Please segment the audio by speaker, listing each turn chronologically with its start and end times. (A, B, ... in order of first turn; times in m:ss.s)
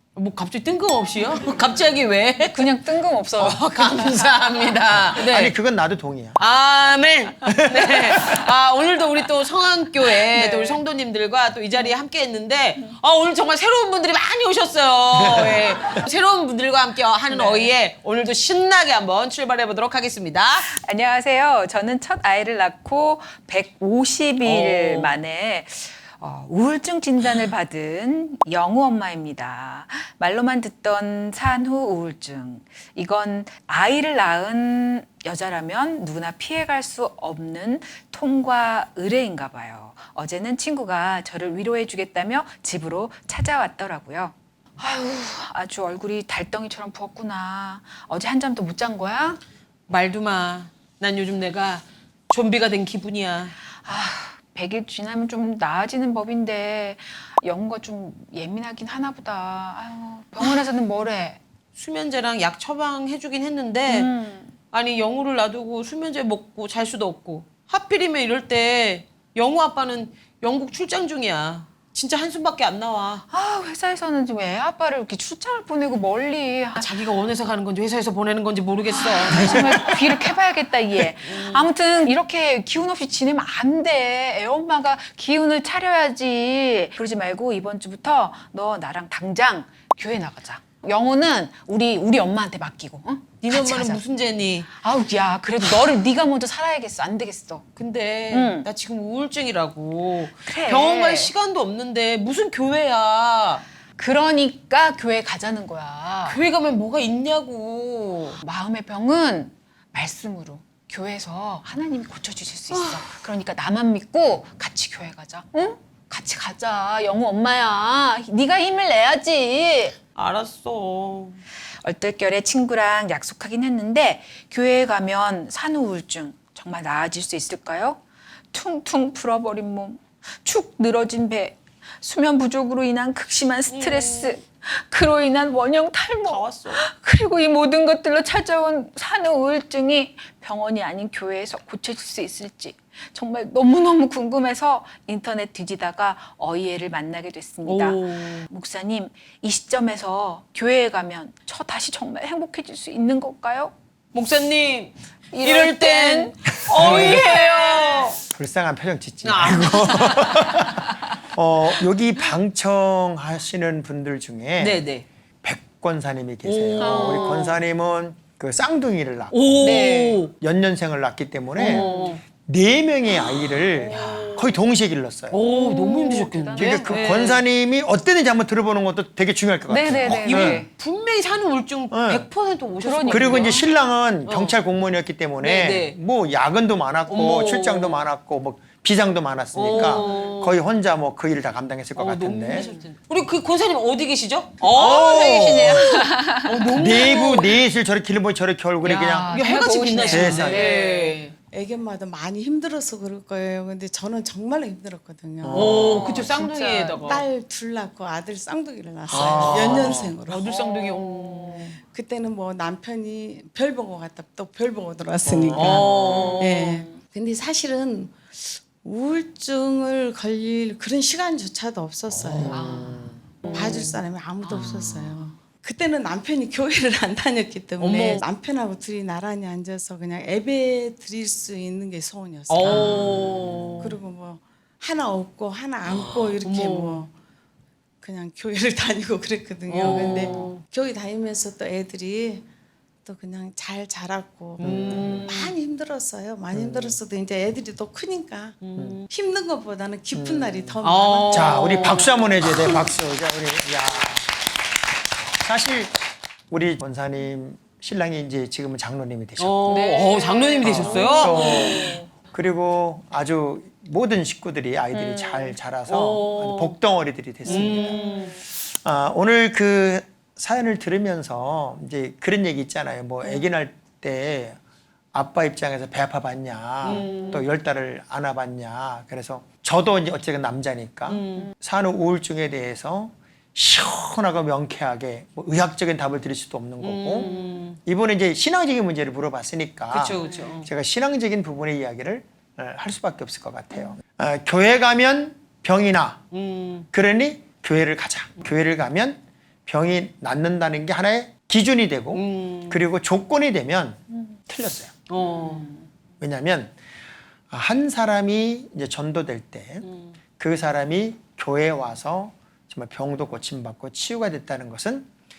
0:00.2-0:02.7 A
0:02.5-0:04.8 B
0:03.4-0:05.6 A
0:05.1-0:06.4 C
0:06.4-0:20.7 A
0:07.5-0:08.4 C
0:10.3-0:10.8 B
0:15.1-0:15.8 C
0:17.3-0:17.7 B
0:20.6-0:49.4 B
0:24.4-0:25.2 A
0:49.9-0:53.6 A
0:53.8-1:01.4 B
1:01.8-1:04.1 A
1:03.9-1:04.6 B
1:04.7-1:13.2 A
1:13.3-1:17.0 B
1:16.8-1:19.7 A
1:18.9-1:34.0 B
1:19.3-1:20.0 C
1:21.3-1:21.7 A
1:33.4-1:34.7 A
1:34.7-1:37.6 B
1:37.8-1:43.6 A
1:38.3-1:38.7 B
1:40.5-1:41.3 B
1:44.0-1:46.4 B
1:46.3-1:48.4 A
1:48.4-2:00.0 B
1:52.7-1:53.0 A
2:00.2-2:01.4 A
2:01.8-2:08.0 B
2:08.5-2:33.7 B
2:13.7-2:14.4 A
2:16.2-2:16.8 A
2:27.6-2:28.4 A
2:34.1-2:38.2 A
2:35.3-2:38.2 B
2:36.7-2:37.3 C
2:38.3-2:44.8 C
2:39.2-2:40.3 A
2:40.0-2:40.9 B
2:44.6-2:45.1 A
2:45.4-2:49.9 C
2:46.4-2:47.6 A
2:46.8-2:47.5 B
2:49.3-2:50.3 A
2:49.6-2:50.2 B
2:50.4-2:55.4 C
2:51.6-2:52.2 B
2:51.6-2:52.2 A
2:53.8-2:54.4 B
2:53.9-2:54.6 A
2:55.3-2:57.4 A
2:55.4-2:57.1 B
2:56.6-3:00.6 C
2:59.7-3:00.7 B
3:00.1-3:03.6 A
3:01.9-3:02.3 C
3:02.8-3:03.7 B
3:03.1-3:12.7 C
3:04.3-3:04.6 A
3:05.4-3:06.0 A
3:07.1-3:08.0 A
3:09.5-3:10.6 A
3:09.7-3:10.2 B
3:12.0-3:17.6 A
3:12.5-3:12.8 B
3:14.6-3:17.4 B
3:14.7-3:16.0 C
3:16.8-3:20.7 C
3:18.8-3:21.2 B
3:19.4-3:21.3 A
3:21.5-3:26.2 D
3:25.4-3:26.1 C
3:25.5-3:27.2 A
3:25.8-3:27.2 B
3:27.0-3:30.5 D
3:29.1-3:30.2 C
3:29.1-3:31.7 A
3:30.4-3:31.4 B
3:31.3-3:42.7 D
3:35.2-3:35.9 C
3:35.6-3:36.9 A
3:36.1-3:36.4 B
3:42.1-3:43.2 C
3:42.4-3:43.8 B
3:43.4-3:44.0 A
3:43.4-3:53.2 D
3:44.4-3:45.1 B
3:44.5-3:45.0 C
3:47.8-3:48.2 A
3:52.5-3:54.0 A
3:52.7-3:53.7 C
3:53.8-3:57.1 D
3:55.9-3:57.0 A
3:58.0-4:02.5 D
3:59.7-4:00.6 A
4:03.0-4:12.1 D
4:04.6-4:05.3 C
4:04.6-4:05.6 A
4:06.5-4:07.0 C
4:08.6-4:09.1 A
4:10.1-4:10.8 C
4:10.8-4:12.8 A
4:11.3-4:14.3 C
4:15.4-4:15.9 C
4:16.5-4:19.7 C
4:19.4-4:22.0 A
4:19.7-4:22.1 B
4:20.6-4:34.6 C
4:24.9-4:25.6 B
4:25.9-4:26.8 A
4:27.5-4:28.4 A
4:27.5-4:28.3 B
4:35.1-4:47.3 C
4:36.8-4:37.5 A
4:37.0-4:37.4 B
4:41.1-4:41.5 A
4:46.8-4:47.8 A
4:47.2-4:47.6 B
4:47.9-4:56.2 C
4:49.9-4:50.7 A
4:56.3-4:56.9 A
4:56.9-5:04.9 C
5:02.1-5:02.8 A
5:05.1-5:05.7 A
5:06.2-5:06.8 C
5:07.5-5:09.9 C
5:10.4-5:15.1 C